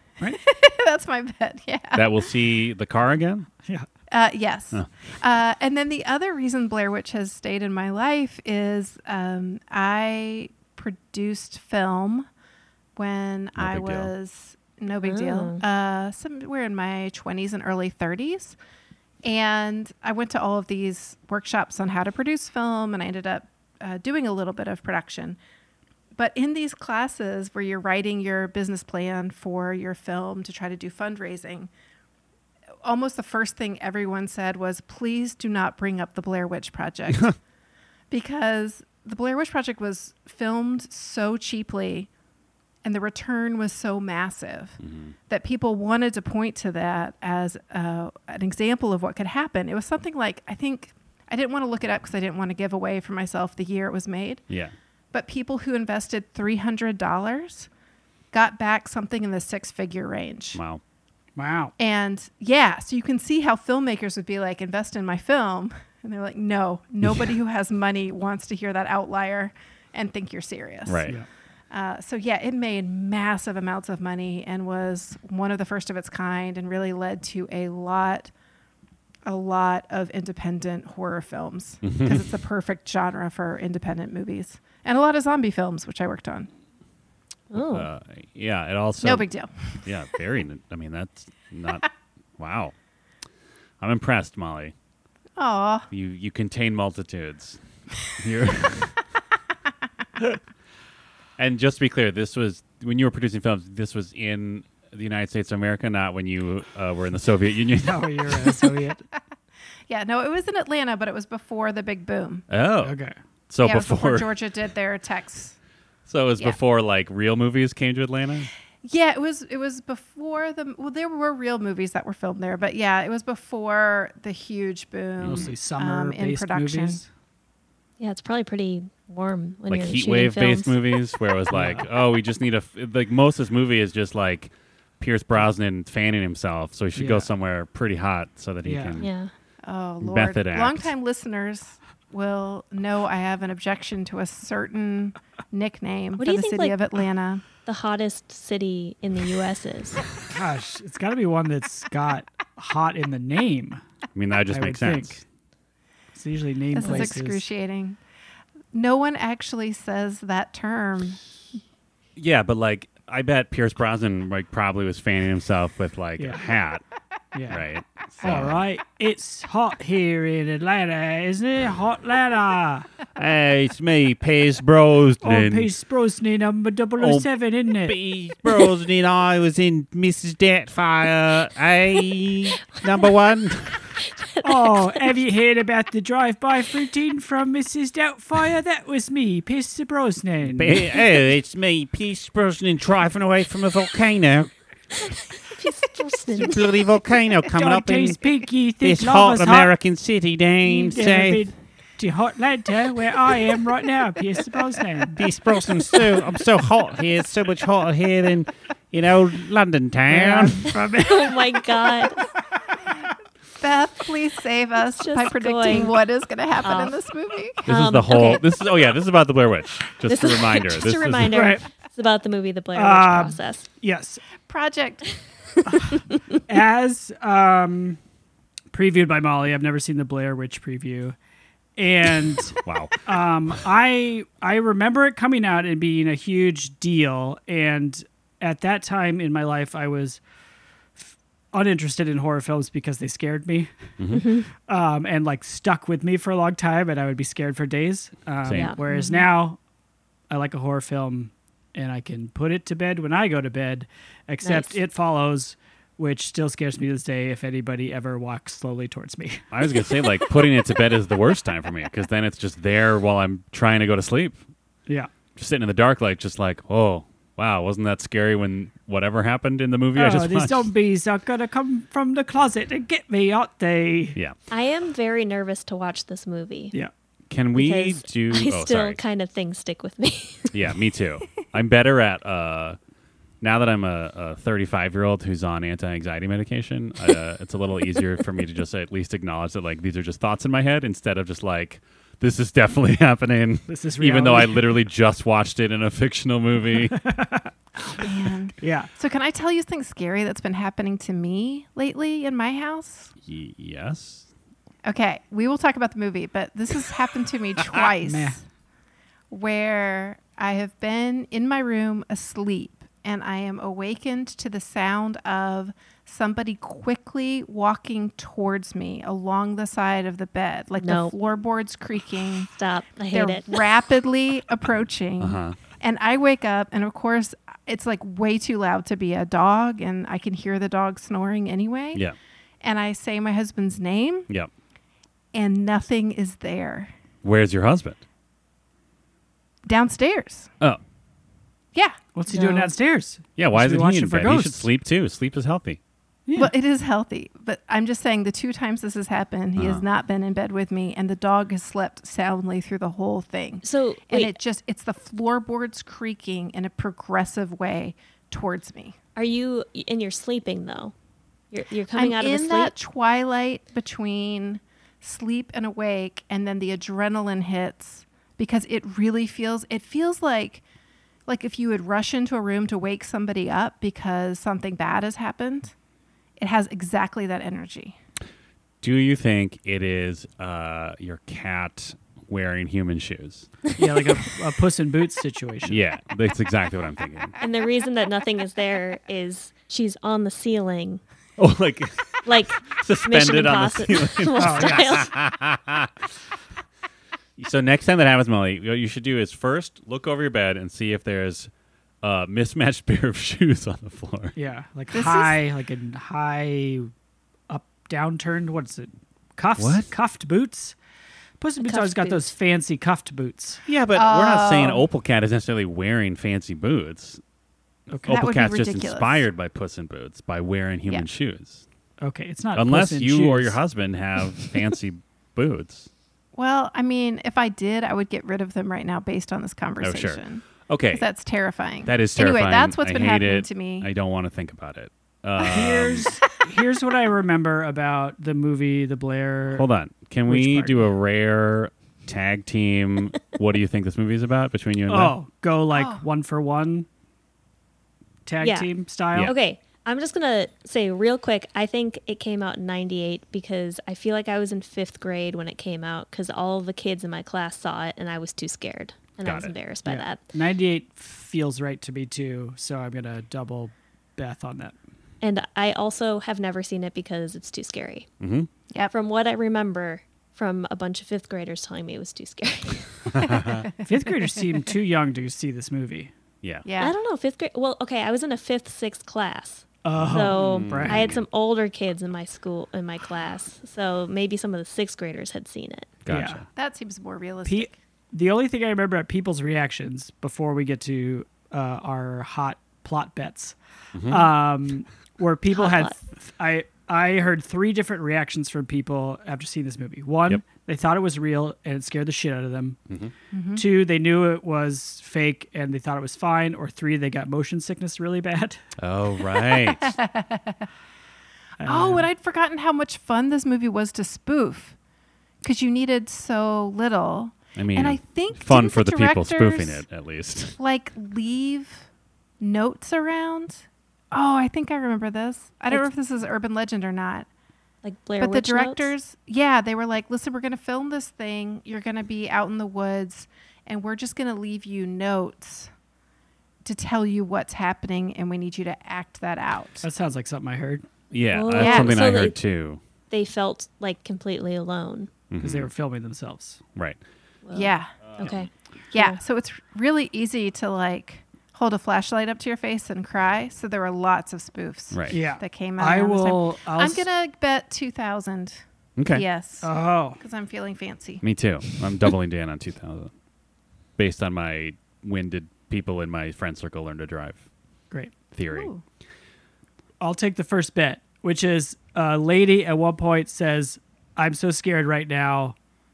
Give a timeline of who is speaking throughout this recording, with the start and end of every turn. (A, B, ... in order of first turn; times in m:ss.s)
0:00.3-0:02.2 A
0:01.9-0:03.5 B
0:04.1-0:12.3 A
0:13.0-0:18.6 A
0:13.6-0:14.1 B
0:15.0-0:15.6 C
0:19.2-0:25.4 A
0:26.2-0:31.7 A
0:32.8-0:37.4 A
0:38.1-0:42.1 A
0:42.8-0:54.4 A
0:44.8-0:45.1 B
0:54.5-0:54.7 B
0:55.1-0:57.7 A
0:58.3-1:00.6 A
1:00.6-1:00.8 B
1:01.4-1:01.7 D
1:01.8-1:11.1 A
1:10.9-1:11.2 B
1:11.7-1:18.3 A
1:19.2-1:26.5 A
1:21.8-1:22.3 B
1:27.5-1:27.9 C
1:27.6-1:29.3 B
1:29.0-1:29.8 A
1:29.8-1:31.8 B
1:32.4-1:32.7 B
1:33.8-1:34.7 B
1:35.4-1:35.9 A
1:35.9-1:37.6 B
1:38.2-1:39.0 B
1:41.4-1:48.5 B
1:47.8-1:49.0 D
1:49.9-1:52.5 A
1:52.5-1:53.0 B
1:52.8-1:53.2 D
1:53.5-1:54.3 B
1:53.6-1:55.6 A
1:56.1-1:58.5 B
1:58.8-2:07.0 A
2:05.2-2:05.5 B
2:05.2-2:07.1 D
2:08.0-2:10.8 C
2:09.7-2:19.1 B
2:11.5-2:11.9 D
2:17.0-2:17.3 D
2:18.6-2:19.0 D
2:19.0-2:19.3 C
2:19.6-2:27.4 A
2:20.0-2:20.9 B
2:26.2-2:26.8 C
2:27.6-2:30.0 C
2:30.3-2:33.8 D
2:34.2-2:35.2 B
2:34.5-2:35.2 D
2:36.1-2:37.4 D
2:36.7-2:38.0 A
2:38.7-2:41.2 A
2:42.2-2:46.8 B
2:46.2-2:46.4 D
2:47.3-2:47.6 D
2:47.5-2:48.6 B
2:48.2-2:52.9 D
2:53.2-2:55.7 B
2:55.2-2:58.0 D
2:57.0-3:03.8 B
3:04.2-3:05.1 C
3:04.4-3:10.9 D
3:10.4-3:14.5 B
3:15.0-3:16.9 C
3:16.3-3:18.2 B
3:17.6-3:19.7 D
3:18.8-3:21.4 B
3:20.6-3:25.2 D
3:25.2-3:30.7 B
3:30.1-3:31.5 D
3:30.9-3:32.2 C
3:33.6-3:37.7 A
3:35.0-3:36.0 C
3:36.6-3:37.0 C
3:37.6-3:38.4 C
3:37.7-3:41.4 B
3:40.1-3:43.7 C
3:41.3-3:41.6 D
3:42.8-3:44.2 D
3:44.5-3:45.1 A
3:45.7-3:48.0 D
3:48.7-3:51.2 D
3:51.8-4:00.2 D
3:52.6-3:53.0 B
4:01.0-4:03.7 D
4:04.0-4:04.3 B
4:04.1-4:04.5 C
4:04.6-4:09.6 D
4:08.4-4:08.7 B
4:08.5-4:09.1 C
4:08.9-4:09.2 A
4:10.3-4:19.4 D
4:14.4-4:14.8 C
4:19.5-4:24.4 B
4:25.4-4:30.7 B
4:30.0-4:34.2 D
4:34.5-4:36.7 C
4:37.3-4:39.0 B
4:37.6-4:40.5 C
4:40.5-4:42.8 B
4:43.4-4:57.0 B
4:53.7-4:54.7 D
4:56.9-4:57.5 D
4:58.0-5:03.1 A
4:58.6-4:58.9 D
5:03.2-5:04.3 B
5:04.8-5:08.4 A
5:08.0-5:08.4 D
5:09.3-5:22.5 A
5:20.8-5:21.1 C
5:22.5-5:23.6 C
5:23.1-5:32.0 A
5:25.2-5:25.6 B
5:32.6-5:34.3 A
5:35.3-5:36.9 A
5:37.2-5:38.0 B
5:39.7-5:40.5 A
5:42.2-5:44.7 D
5:42.3-5:42.7 C
5:43.4-5:45.8 B
5:46.3-5:46.5 D
5:46.3-5:59.0 A
5:49.6-5:49.8 B
5:53.6-5:54.3 C
5:59.2-6:00.9 C
6:01.5-6:02.7 C
6:02.0-6:10.6 A
6:11.3-6:15.7 A
6:16.4-6:18.0 A
6:18.8-6:23.5 B
6:23.8-6:25.8 D
6:25.6-6:27.4 B
6:27.4-6:31.0 C
6:31.4-6:36.1 B
6:32.2-6:35.1 C
6:34.4-6:35.0 D
6:37.4-6:41.5 B
6:42.0-6:44.4 B
6:44.4-6:46.9 D
6:44.9-6:45.4 A
6:47.5-6:50.8 D
6:49.6-6:49.9 B
6:51.4-6:53.6 D
6:51.6-6:52.3 C
6:53.7-6:57.2 B
6:53.9-6:54.8 A
6:57.9-6:58.2 D
6:58.0-7:01.6 B
6:58.1-6:59.3 A
7:02.0-7:03.6 D
7:02.5-7:05.9 B
7:06.4-7:13.9 A
7:09.8-7:11.1 B
7:11.8-7:16.2 B
7:15.4-7:19.7 D
7:19.5-7:25.2 B
7:20.3-7:20.9 D
7:24.9-7:26.9 D
7:25.7-7:26.0 A
7:28.3-7:29.3 D
7:28.4-7:28.7 C
7:29.2-7:40.2 C
7:39.2-7:39.5 B
7:39.8-7:44.8 D
7:45.2-7:48.1 C
7:48.2-7:48.5 B
7:48.9-7:53.5 C
7:53.1-7:53.7 B
7:53.8-7:56.1 D
7:56.6-7:56.9 A
7:56.8-8:06.0 C
7:59.8-8:01.1 D
8:00.0-8:01.3 B
8:06.0-8:06.4 B
8:06.1-8:06.4 D
8:06.6-8:07.8 A
8:07.5-8:22.8 D
8:13.9-8:14.3 B
8:15.5-8:16.0 C
8:23.3-8:23.6 A
8:23.6-8:28.6 D
8:28.8-8:30.0 B
8:29.8-8:30.6 A
8:31.6-8:32.1 D
8:31.6-8:34.8 A
8:35.4-8:39.8 A
8:37.6-8:40.6 B
8:40.6-8:41.9 A
8:42.4-8:47.3 A
8:47.8-8:48.9 C
8:48.2-8:55.7 A
8:56.6-8:59.9 A
8:59.8-9:00.9 D
9:01.1-9:02.8 B
9:01.3-9:02.4 C
9:01.6-9:02.0 A
9:03.1-9:05.1 C
9:05.3-9:05.7 B
9:05.4-9:06.6 D
9:07.4-9:09.2 C
9:07.5-9:07.9 A
9:08.1-9:08.5 B
9:08.9-9:21.2 A
9:14.9-9:15.2 B
9:15.1-9:17.1 D
9:19.0-9:19.2 B
9:19.6-9:20.2 D
9:21.2-9:23.1 B
9:24.0-9:27.4 B
9:28.3-9:28.7 B
9:28.5-9:28.8 A
9:30.0-9:35.6 D